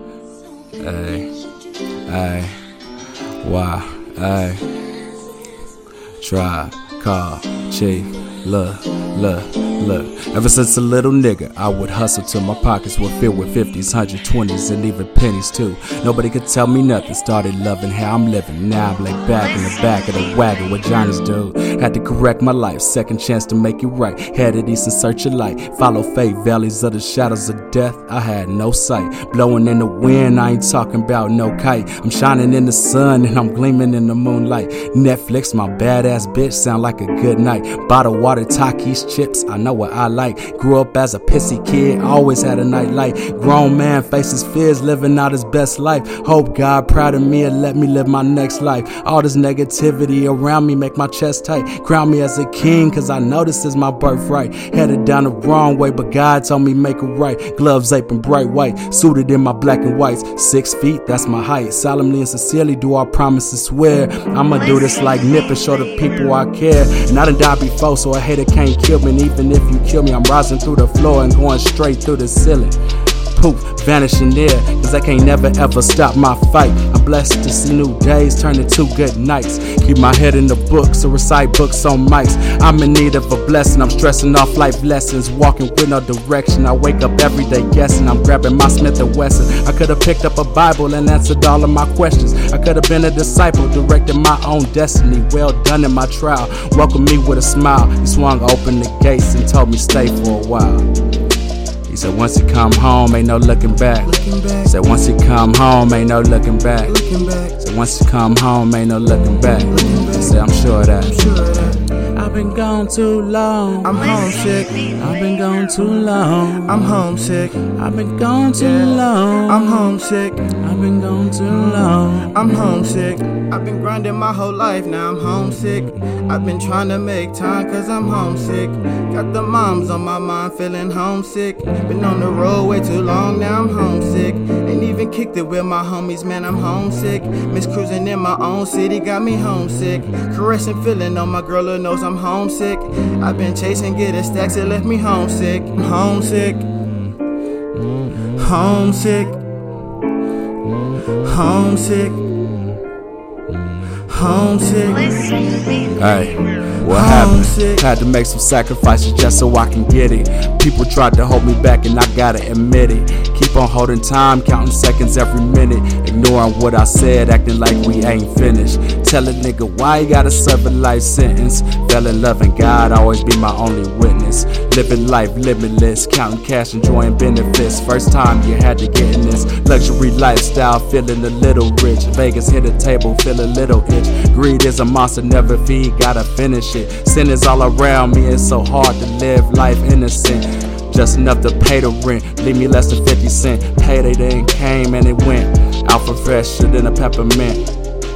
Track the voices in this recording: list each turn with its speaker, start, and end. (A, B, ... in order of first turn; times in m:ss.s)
0:00.8-0:01.3 A
0:02.1-0:02.6 A
0:03.4-0:04.7 A
0:06.2-1:40.9 A
1:41.9-1:47.0 A
1:44.0-1:44.7 B
1:46.9-1:47.6 B
1:47.6-1:51.2 A
1:49.7-1:51.9 B
1:52.0-1:54.2 A
1:53.8-1:54.9 B
1:54.8-1:56.9 A
1:56.6-1:57.6 B
1:57.6-1:59.9 A
1:58.6-2:00.5 B
2:00.5-2:02.4 A
2:02.3-2:26.7 B
2:28.2-2:29.4 B
2:31.2-2:32.2 B
2:34.0-2:35.7 B
2:35.9-3:17.7 A
2:36.8-2:37.8 B